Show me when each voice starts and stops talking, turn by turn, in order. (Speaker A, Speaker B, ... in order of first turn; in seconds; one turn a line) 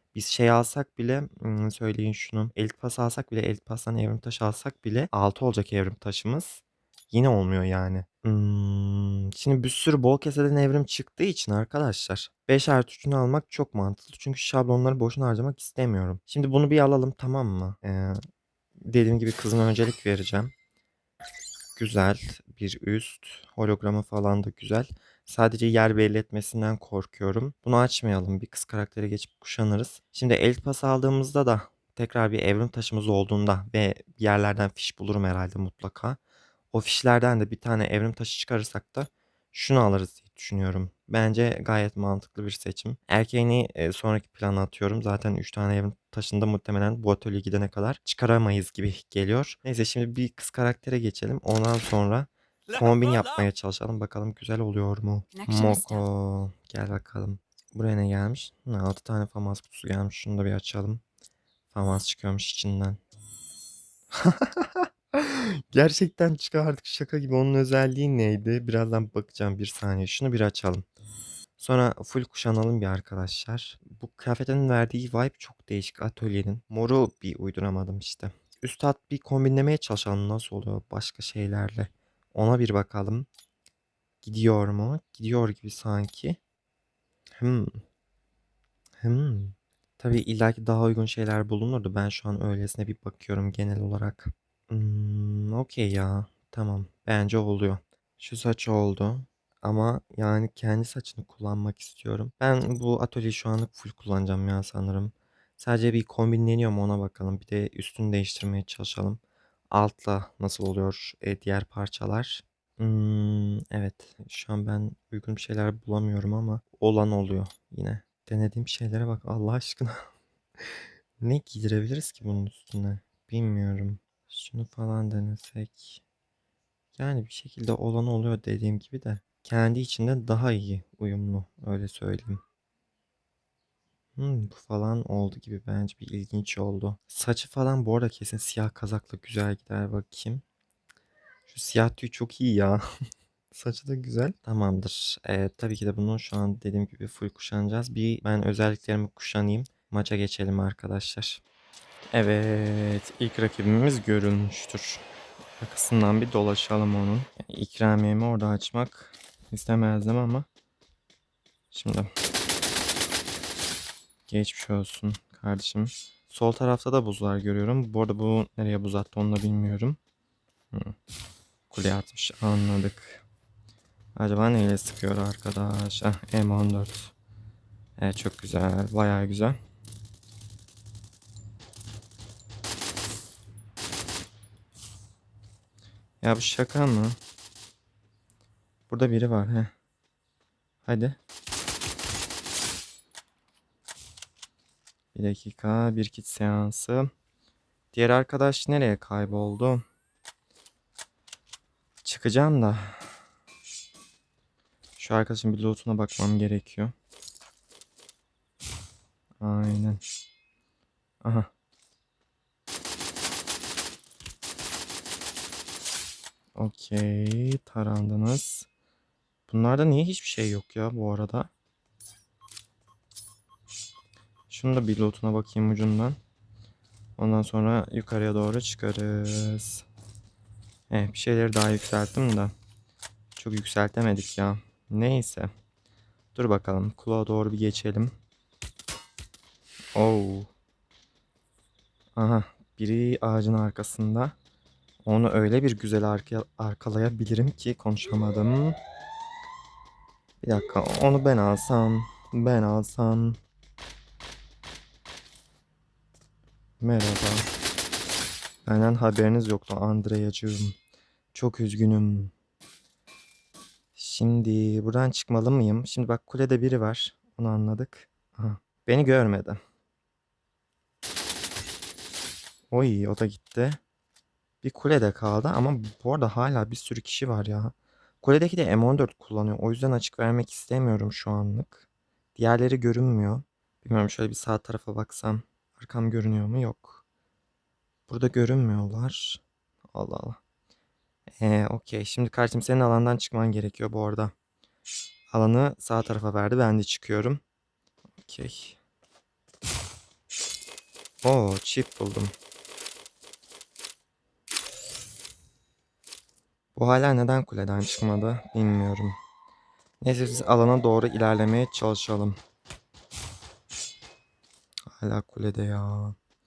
Speaker A: 0.1-18.2
Speaker A: 18.8-20.5
Speaker A: 21.8-36.2
Speaker A: 36.7-61.0
Speaker A: 61.7-63.0
Speaker A: 64.1-70.8
Speaker A: 71.6-83.3
Speaker A: 84.2-86.4
Speaker A: 87.4-87.7
Speaker A: 89.0-120.0
Speaker A: 121.2-126.0
Speaker A: 127.0-132.4
Speaker A: 134.2-140.4
Speaker A: 141.5-142.8
Speaker A: 143.5-151.4
Speaker A: 152.1-155.0
Speaker A: 155.6-160.5
Speaker A: 161.7-162.1
Speaker A: 164.3-170.0
Speaker A: 171.7-173.2
Speaker A: 174.2-177.1
Speaker A: 178.0-179.6
Speaker A: 186.2-187.2
Speaker A: 188.9-189.7
Speaker A: 190.8-191.2
Speaker A: 195.1-197.1
Speaker A: 197.9-199.8
Speaker A: 202.0-203.0
Speaker A: 205.0-206.9
Speaker A: 209.4-210.0
Speaker A: 211.2-211.5
Speaker A: 216.6-218.7
Speaker A: 219.5-221.5
Speaker A: 224.5-226.2
Speaker A: 227.2-229.9
Speaker A: 230.9-232.5
Speaker A: 233.4-235.5
Speaker A: 236.3-238.1
Speaker A: 239.9-240.5
Speaker A: 242.2-244.3
Speaker A: 245.1-248.8
Speaker A: 250.4-253.4
Speaker A: 256.8-257.5
Speaker A: 258.6-260.8
Speaker A: 261.3-262.3
Speaker A: 264.0-269.6
Speaker A: 272.7-273.8
Speaker A: 274.6-287.0
Speaker A: 288.1-289.4
Speaker A: 289.9-290.4
Speaker A: 291.4-294.3
Speaker A: 295.3-297.4
Speaker A: 298.2-298.8
Speaker A: 301.2-302.3
Speaker A: 306.8-309.2
Speaker A: 310.0-312.4
Speaker A: 315.0-316.2